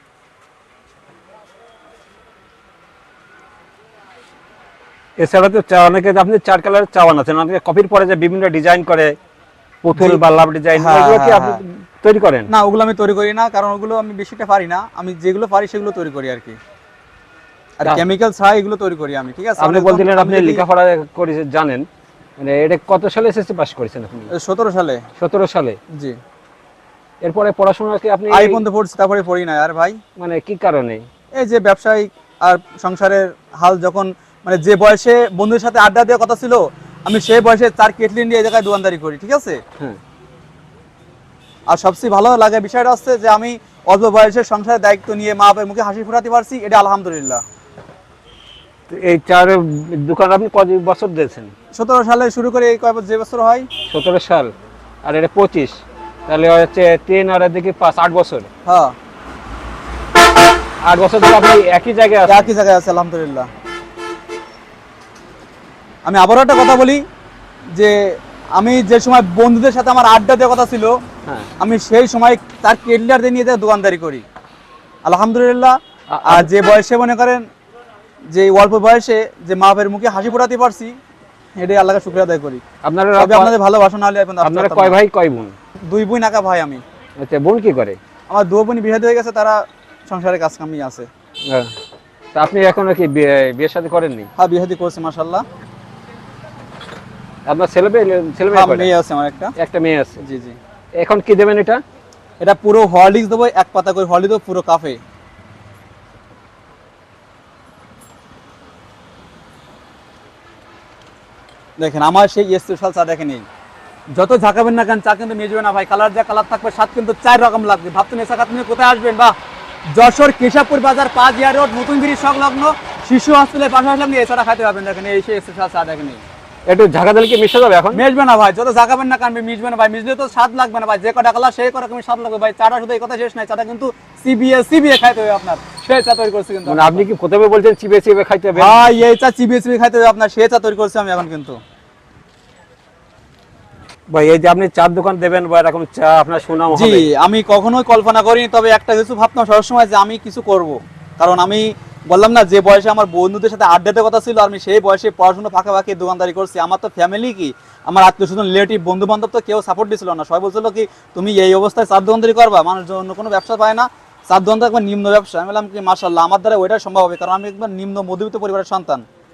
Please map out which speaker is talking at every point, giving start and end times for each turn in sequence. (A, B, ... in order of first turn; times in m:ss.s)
0:05.2-0:09.2 A
0:09.8-0:12.5 A
0:10.0-0:10.2 B
0:10.8-0:11.6 B
0:12.5-0:16.6 B
0:17.8-0:20.6 B
0:19.6-0:21.9 A
0:22.4-0:24.3 A
0:24.3-0:25.0 B
0:25.2-0:25.8 A
0:27.2-0:28.6 A
0:28.3-0:30.0 B
0:30.2-0:31.0 A
0:31.3-0:39.6 B
0:41.7-0:47.4 B
0:48.9-0:51.5 A
0:51.7-0:53.7 B
0:53.9-0:54.5 A
0:55.0-0:58.5 A
0:58.6-0:58.9 B
1:00.8-1:02.5 A
1:02.3-1:03.5 B
1:06.0-1:07.0 B
1:07.7-1:11.0 B
1:11.6-1:14.2 B
1:15.0-1:17.4 B
1:16.1-1:16.5 A
1:18.3-1:21.0 B
1:21.6-1:22.6 B
1:22.8-1:23.5 A
1:23.2-1:25.0 B
1:24.4-1:25.5 A
1:25.9-1:26.8 B
1:27.2-1:28.0 A
1:28.3-1:31.1 B
1:32.3-1:34.3 A
1:34.4-1:35.4 B
1:37.4-1:38.9 A
1:38.5-1:39.5 B
1:39.6-1:40.2 A
1:40.2-1:40.6 B
1:41.0-1:41.8 A
1:42.4-1:45.0 B
1:51.8-1:53.4 B
1:54.1-1:59.3 B
1:59.9-2:06.2 B
2:06.6-2:08.0 A
2:07.9-2:17.0 B
2:16.7-2:18.9 A
2:18.5-2:21.6 B
2:24.1-2:27.1 A
2:26.7-2:49.0 B